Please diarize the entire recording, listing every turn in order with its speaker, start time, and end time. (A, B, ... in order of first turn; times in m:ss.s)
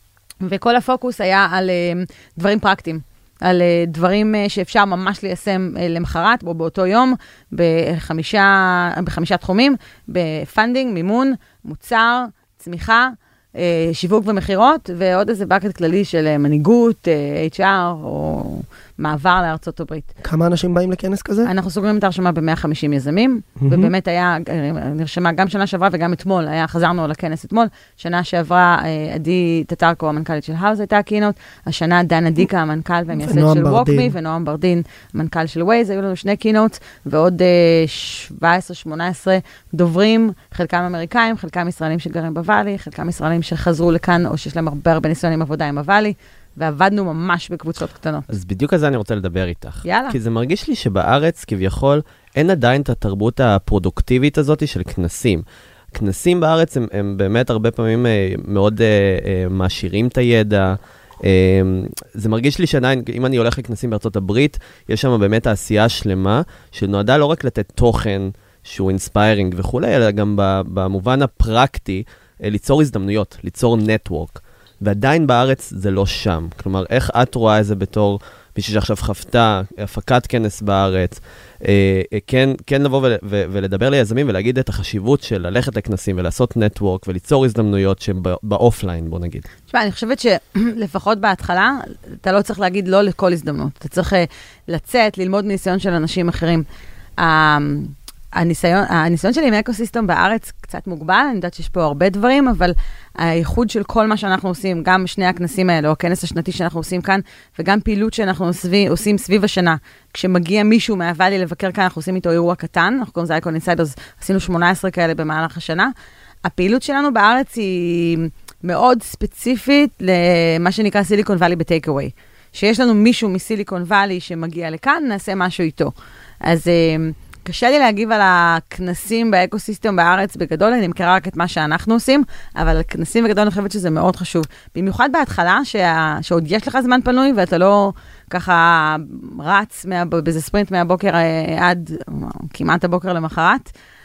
0:00.4-0:20.1 A
0:20.2-0:21.5 B
0:21.4-0:48.3 A
0:23.6-0:23.9 B
0:33.1-0:34.1 B
0:48.3-1:29.5 C
0:49.8-0:50.2 A
1:29.7-1:36.6 A
1:37.2-1:55.9 A
1:56.4-2:05.9 A
2:06.4-2:23.7 A